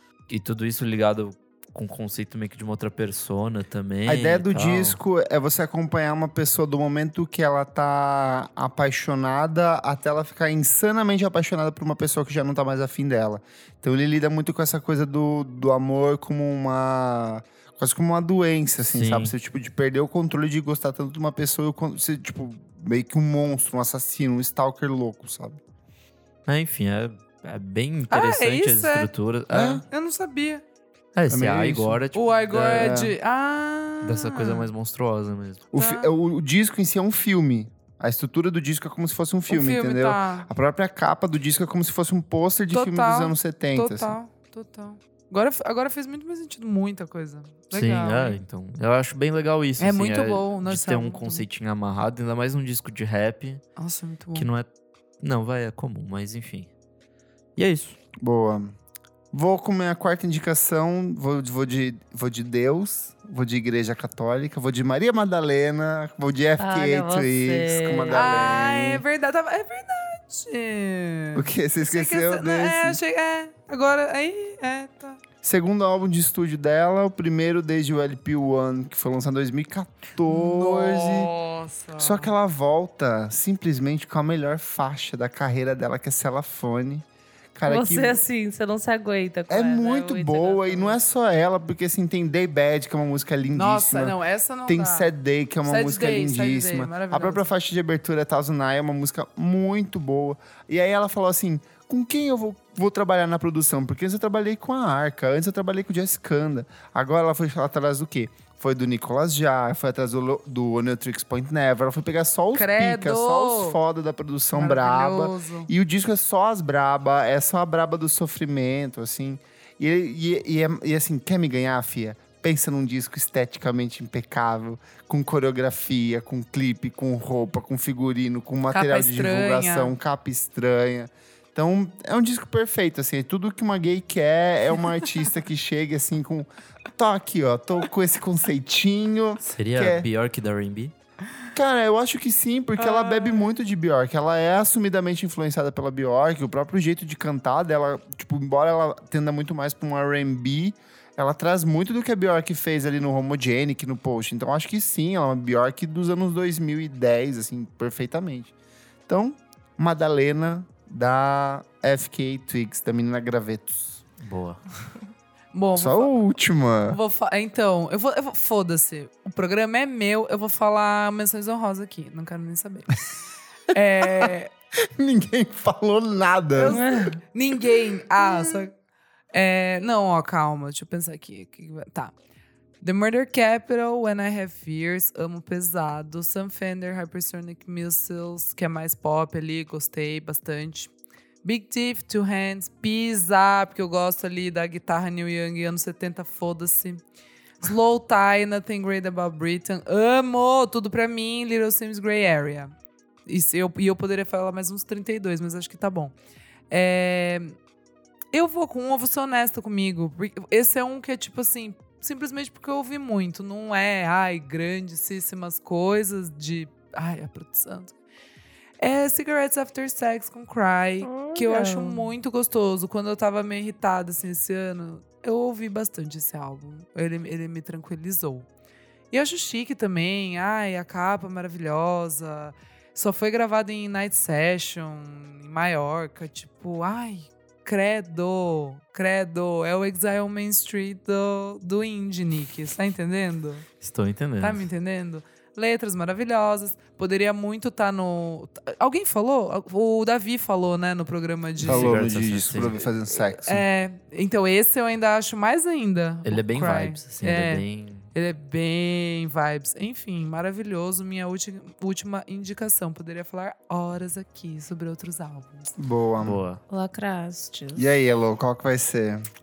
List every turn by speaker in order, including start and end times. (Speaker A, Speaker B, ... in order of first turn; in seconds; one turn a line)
Speaker A: 0.3-5.0
Speaker B: 4.0-25.6
Speaker A: 18.9-19.3
Speaker A: 26.5-29.8
Speaker C: 28.1-29.1
Speaker B: 29.5-29.8
Speaker C: 29.9-30.6
Speaker A: 31.1-33.0
Speaker B: 31.3-32.0
Speaker C: 32.1-34.7
Speaker B: 32.5-33.1
Speaker A: 34.0-35.7
Speaker B: 35.7-44.1
Speaker C: 35.7-36.1
Speaker C: 39.5-40.5
Speaker C: 42.7-48.4
Speaker A: 47.7-53.6
Speaker C: 49.8-51.5
Speaker C: 53.8-54.5
Speaker A: 54.3-54.7
Speaker A: 55.2-56.7
Speaker A: 57.5-58.0
Speaker B: 58.2-58.7
Speaker B: 59.3-69.0
Speaker D: 66.6-68.5
Speaker C: 68.1-75.2
Speaker B: 71.3-73.0
Speaker B: 75.4-81.3
Speaker C: 80.3-82.3
Speaker B: 82.0-88.2
Speaker D: 87.6-91.0
Speaker B: 89.5-140.1
Speaker C: 93.5-95.1
Speaker C: 95.6-97.4
Speaker C: 112.5-113.8
Speaker C: 114.5-115.7
Speaker C: 128.7-129.9
Speaker A: 139.4-140.9
Speaker B: 141.5-158.5
Speaker C: 142.8-143.5
Speaker B: 159.1-164.0
Speaker A: 164.2-164.6
Speaker C: 165.5-166.1
Speaker B: 165.7-167.0
Speaker C: 166.9-173.0
Speaker C: 173.7-174.5
Speaker B: 174.0-174.3
Speaker B: 174.8-176.8
Speaker C: 176.5-178.7
Speaker D: 176.7-177.2
Speaker C: 179.3-182.1
Speaker C: 182.8-190.9
Speaker C: 191.4-197.0
Speaker C: 197.6-202.7
Speaker C: 203.2-206.1
Speaker C: 206.7-207.6
Speaker C: 208.3-217.9
Speaker C: 218.8-228.5
Speaker D: 221.0-222.1
Speaker C: 229.1-243.7
Speaker A: 243.8-244.7
Speaker C: 244.4-252.0
Speaker A: 251.6-252.8
Speaker B: 251.6-253.7
Speaker C: 253.2-265.7
Speaker A: 256.2-258.1
Speaker B: 265.8-266.4
Speaker A: 266.2-266.6
Speaker D: 266.7-268.0
Speaker B: 267.8-269.2